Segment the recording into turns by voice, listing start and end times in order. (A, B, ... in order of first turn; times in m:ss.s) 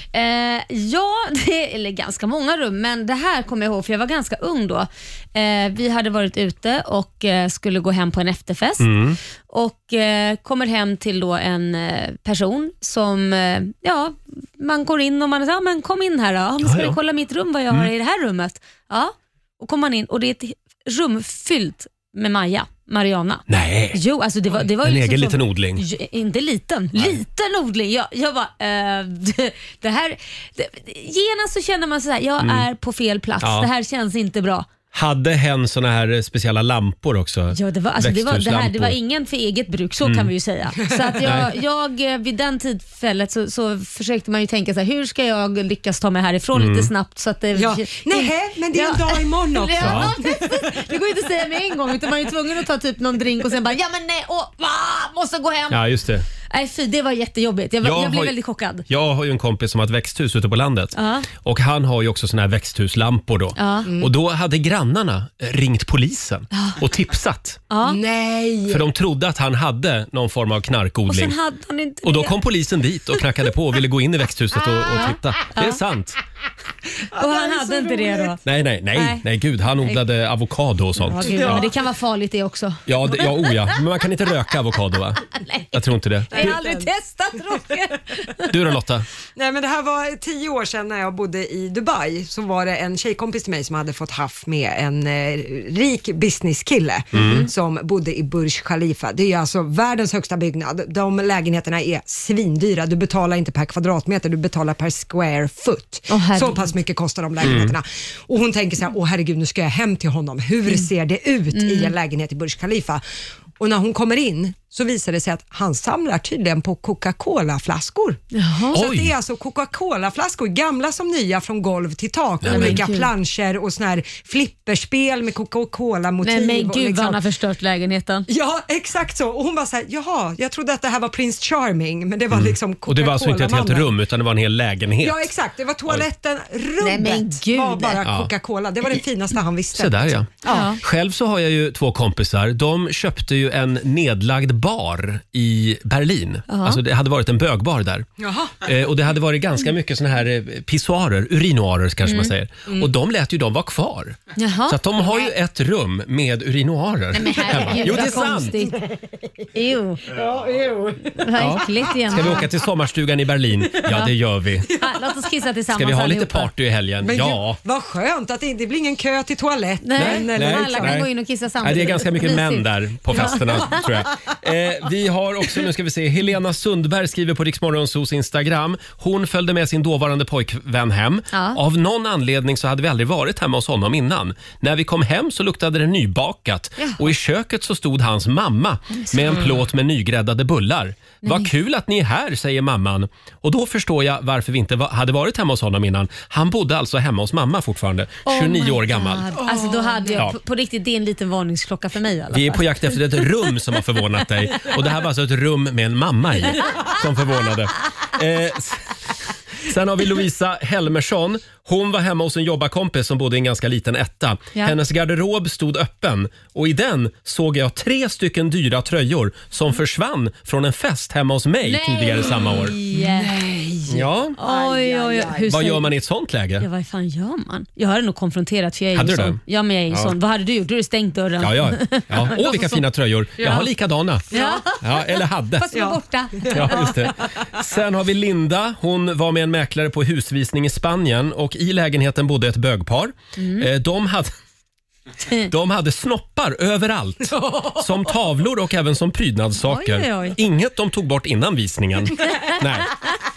0:00.1-0:08.9 A
0:08.8-0:09.2 B
0:09.5-0:34.7 A
0:16.6-0:17.0 B
0:23.5-0:24.0 B
0:24.5-0:25.8 B
0:32.4-0:32.6 B
0:33.4-0:33.7 B
0:34.9-0:39.0 B
0:37.5-0:55.8 A
0:40.0-0:40.3 B
0:41.2-0:41.5 B
0:46.5-0:46.9 B
0:47.5-0:50.7 C
0:49.8-0:50.1 B
0:55.7-0:56.2 B
0:56.5-0:58.8 A
0:57.8-0:58.3 B
0:58.8-1:07.6 B
1:00.9-1:01.3 A
1:03.6-1:03.9 A
1:06.5-1:06.8 A
1:07.7-1:08.0 A
1:07.8-1:08.8 C
1:08.7-1:11.4 B
1:11.1-1:12.4 A
1:12.0-1:16.2 B
1:14.9-1:15.8 A
1:17.1-1:18.3 C
1:17.2-1:18.4 A
1:18.4-1:21.6 B
1:18.9-1:19.2 A
1:21.0-1:23.8 A
1:21.2-1:21.7 C
1:22.9-1:26.6 B
1:25.3-1:25.7 A
1:26.3-1:26.9 C
1:26.3-1:28.5 A
1:28.5-1:29.0 B
1:29.4-1:53.0 C
1:37.1-1:37.5 B
1:37.1-1:37.5 A
1:46.1-1:46.7 A
1:47.4-1:47.7 B
1:51.5-1:51.9 A
1:53.6-2:07.2 C
1:58.3-1:58.8 A
1:58.7-1:59.1 B
2:02.4-2:02.8 B
2:02.4-2:03.1 A
2:06.2-2:08.3 A
2:08.3-2:13.9 C
2:12.3-2:15.3 B
2:15.0-2:20.8 C
2:16.8-2:18.0 A
2:18.0-2:18.3 B
2:19.7-2:28.1 B
2:20.4-2:20.8 A
2:26.5-2:26.8 A
2:28.2-2:28.6 C
2:28.6-2:38.7 B
2:32.0-2:32.3 A
2:34.4-2:35.3 A
2:37.1-2:38.8 A
2:37.6-2:38.0 C
2:39.5-2:40.0 A
2:40.1-2:42.4 C
2:41.2-2:42.4 A
2:41.4-2:44.7 B
2:43.8-2:44.1 A
2:44.7-2:46.5 A
2:45.7-2:47.6 B
2:47.0-2:51.0 C
2:49.8-2:53.8 A
2:50.0-2:51.1 B
2:51.6-3:19.3 B
3:01.3-3:01.6 A
3:08.9-3:09.5 A
3:11.2-3:11.5 A
3:18.2-3:23.5 A
3:19.3-3:20.2 C
3:22.3-3:28.8 B
3:29.6-3:42.7 B
3:41.6-3:43.3 A
3:42.9-3:45.5 C
3:43.9-3:44.4 B
3:44.4-3:45.9 A
3:45.5-3:46.7 B
3:46.6-3:52.8 A
3:48.9-3:50.2 B
3:51.4-3:54.3 B
3:53.4-3:53.6 A
3:54.3-3:54.6 C
3:54.3-3:54.8 A
3:54.8-3:55.9 B
3:55.5-3:56.9 A
3:55.7-3:57.5 C
3:56.5-4:04.3 B
4:03.4-4:03.7 A
4:05.5-4:12.9 B
4:07.3-4:07.8 C
4:09.6-4:10.4 A
4:12.2-4:13.1 A